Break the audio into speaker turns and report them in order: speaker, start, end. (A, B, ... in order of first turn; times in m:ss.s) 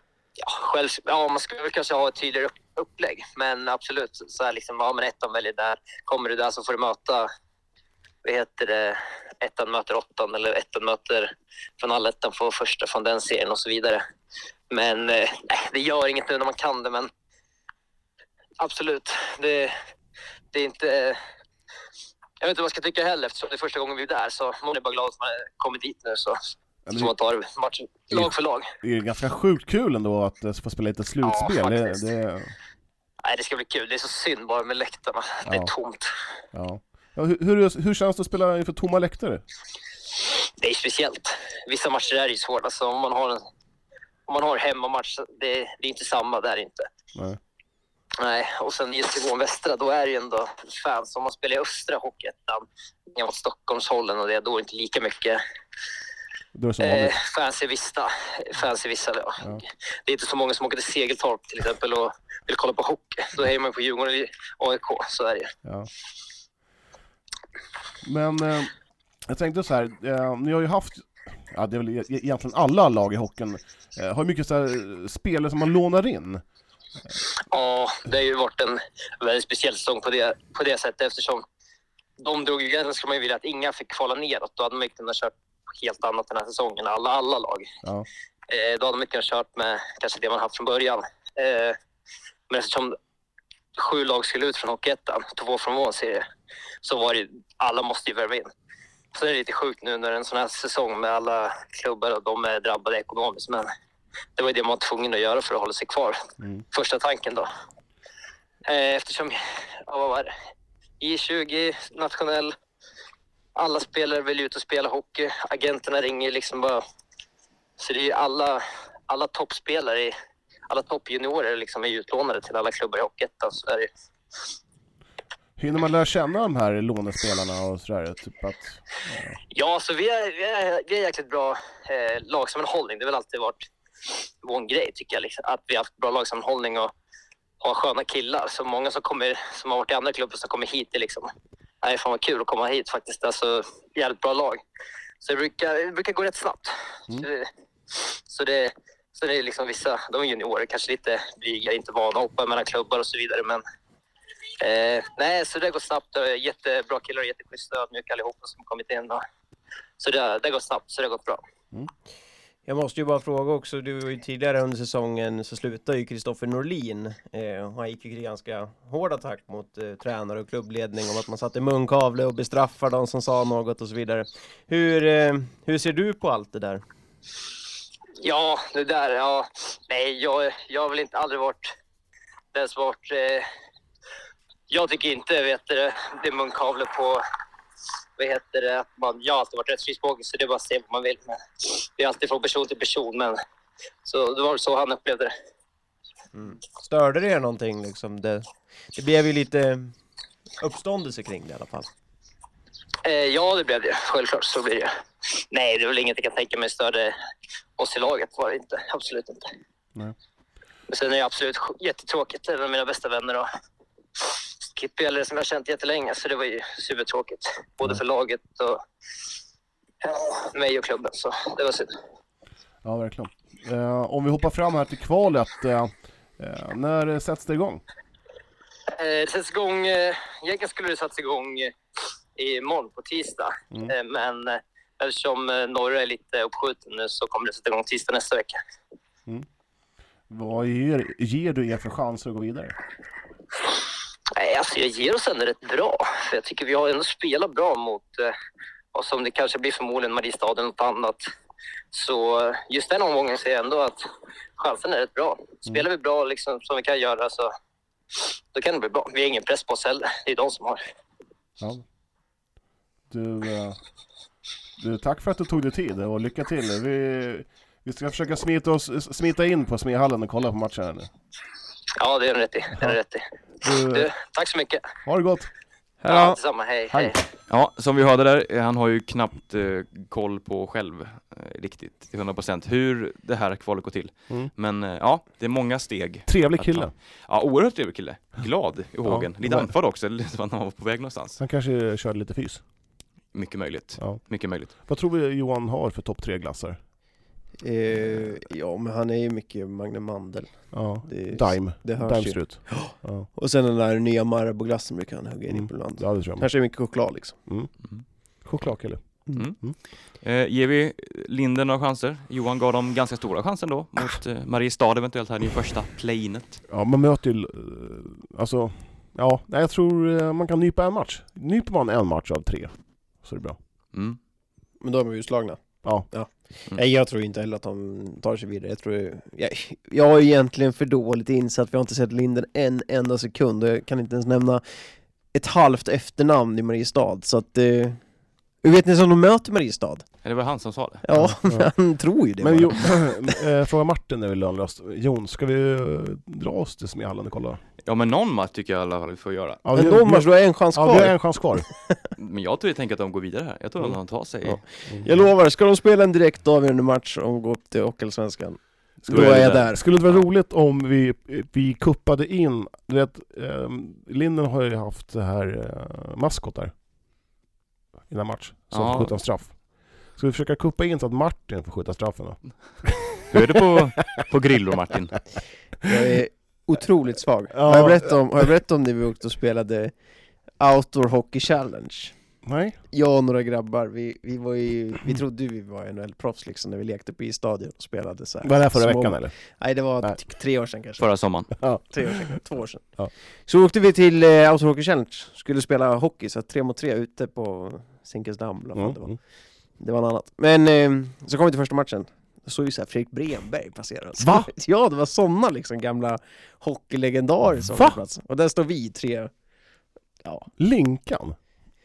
0:00.4-0:07.3 A
0:08.2-0:14.0 A
0:14.7-0:17.1 A
0:18.6-0:19.7 A
0:20.5-0:21.2 A
0:22.4-0:26.4 A
0:26.9-0:27.1 B
0:26.9-0:28.7 A
0:28.1-0:32.5 B
0:31.2-0:32.0 A
0:33.2-0:36.1 A
0:35.4-0:35.7 B
0:36.5-0:39.4 B
0:40.6-0:43.4 A
0:44.3-0:46.9 A
0:48.2-0:55.4 A
0:56.5-0:57.1 B
0:56.8-1:05.5 A
1:08.0-1:08.7 B
1:09.3-1:16.4 B
1:17.5-1:21.4 A
1:22.2-1:27.7 A
1:28.5-1:31.8 A
1:32.5-1:33.0 A
1:33.7-1:36.2 A
1:36.8-1:38.5 A
1:39.1-1:43.7 A
1:44.4-1:46.2 A
1:46.7-1:47.5 A
1:48.6-1:50.3 A
1:51.0-1:52.6 A
1:53.5-1:56.8 A
1:57.8-2:00.1 A
2:00.7-2:03.9 A
2:05.6-2:09.4 B
2:09.5-2:16.9 A
2:17.6-2:21.3 A
2:21.8-2:24.6 A
2:25.2-2:33.6 A
2:34.6-2:39.2 A
2:40.0-2:41.4 A
2:42.6-2:56.8 C
2:58.2-3:01.7 A
3:02.5-3:03.5 A
3:04.7-3:07.2 A
3:08.2-3:13.4 A
3:14.0-3:15.3 A
3:16.3-3:19.9 C
3:20.6-3:21.9 C
3:23.0-3:27.1 A
3:27.8-3:29.5 A
3:30.9-3:33.5 A
3:34.2-3:38.8 A
3:40.0-3:41.9 A
3:42.8-3:47.8 B
3:48.9-3:51.8 A
3:52.4-3:58.6 A
4:00.3-4:02.7 B
4:04.3-4:08.3 A
4:08.9-4:11.2 A
4:11.9-4:17.5 A
4:18.1-4:20.8 A
4:23.1-4:23.8 B
4:24.8-4:31.1 B
4:32.0-4:34.8 A
4:33.6-4:34.1 B
4:35.0-4:35.5 B
4:36.0-4:36.4 C
4:36.0-4:37.2 A
4:36.9-4:37.2 B
4:37.5-4:51.4 D
4:46.2-4:46.9 B
4:49.0-4:49.7 B
4:51.4-4:52.6 B
4:53.3-4:54.7 D
4:54.0-4:56.8 B
4:57.6-5:07.4 C
5:00.7-5:03.3 B
5:05.5-5:09.8 B
5:07.8-5:08.4 D
5:09.3-5:16.6 D
5:16.7-5:23.6 B
5:23.9-5:24.2 D
5:24.8-5:40.2 C
5:40.2-5:41.0 D
5:41.0-5:43.2 C
5:41.1-5:47.6 B
5:47.8-5:49.6 D
5:49.6-5:51.6 B
5:49.7-5:51.9 C
5:52.2-5:54.6 D
5:53.8-5:55.2 B
5:54.6-5:59.8 C
5:59.0-6:06.7 B
5:59.1-6:00.3 D
6:08.1-6:14.2 B
6:08.7-6:09.2 D
6:13.3-6:15.2 D
6:15.8-6:22.3 C
6:17.5-6:18.2 B
6:22.4-6:22.8 B
6:22.9-6:49.3 C
6:28.4-6:30.2 B
6:31.0-6:31.5 D
6:31.6-6:32.4 B
6:38.7-6:39.2 B
6:44.2-6:44.5 B
6:47.7-6:48.0 B
6:50.2-6:50.5 C
6:50.6-6:51.4 B